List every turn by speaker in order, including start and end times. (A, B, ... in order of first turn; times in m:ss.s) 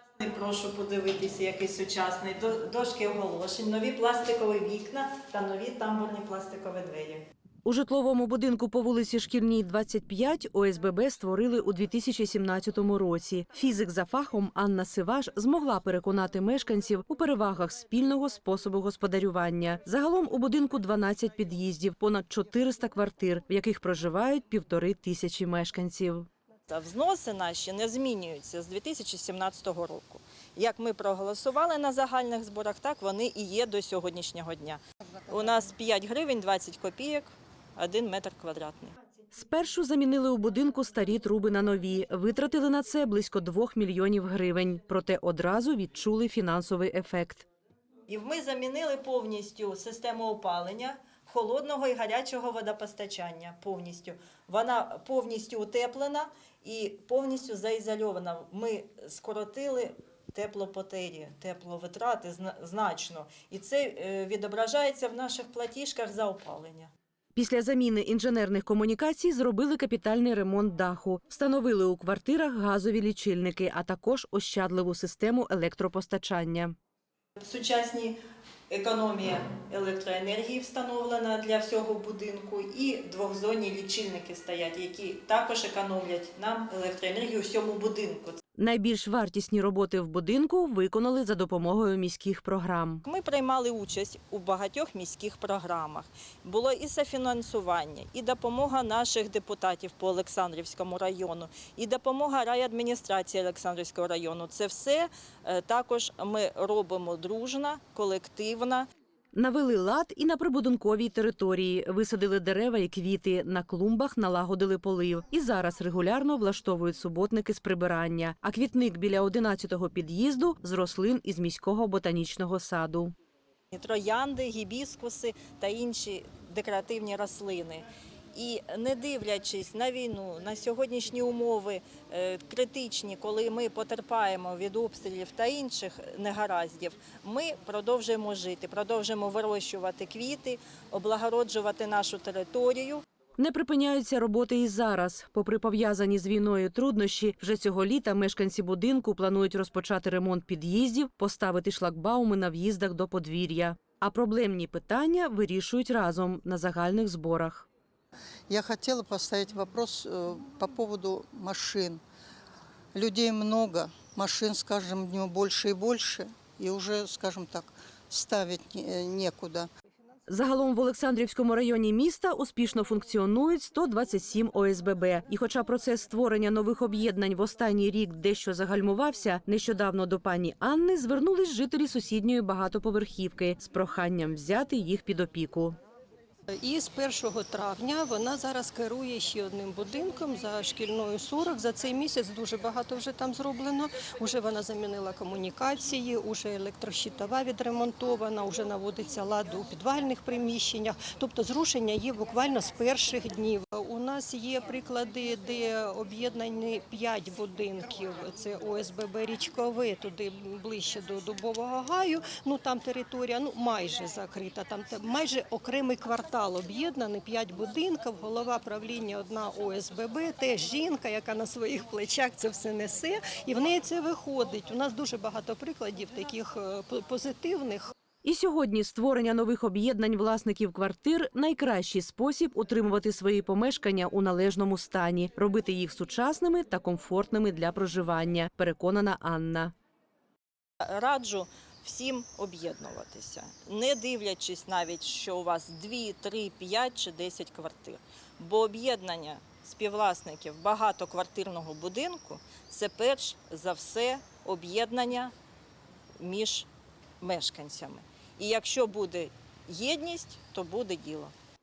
0:00.2-0:07.2 A
0:07.6-0:26.3 B
0:26.7-0:38.9 A
0:39.3-0:47.5 B
0:48.1-1:06.9 A
1:07.3-1:16.7 B
1:17.4-1:18.2 A
1:18.7-1:28.4 A
1:28.6-1:33.0 B
1:33.0-1:48.9 A
1:49.3-2:03.1 B
2:03.7-2:23.0 A
2:23.4-2:37.7 B
2:38.5-2:42.0 C
2:42.9-2:49.7 C
2:50.3-3:05.8 B
3:06.6-3:47.9 D
3:48.2-3:59.7 B
4:00.8-4:15.3 A
4:16.2-4:16.7 A
4:17.2-4:21.3 A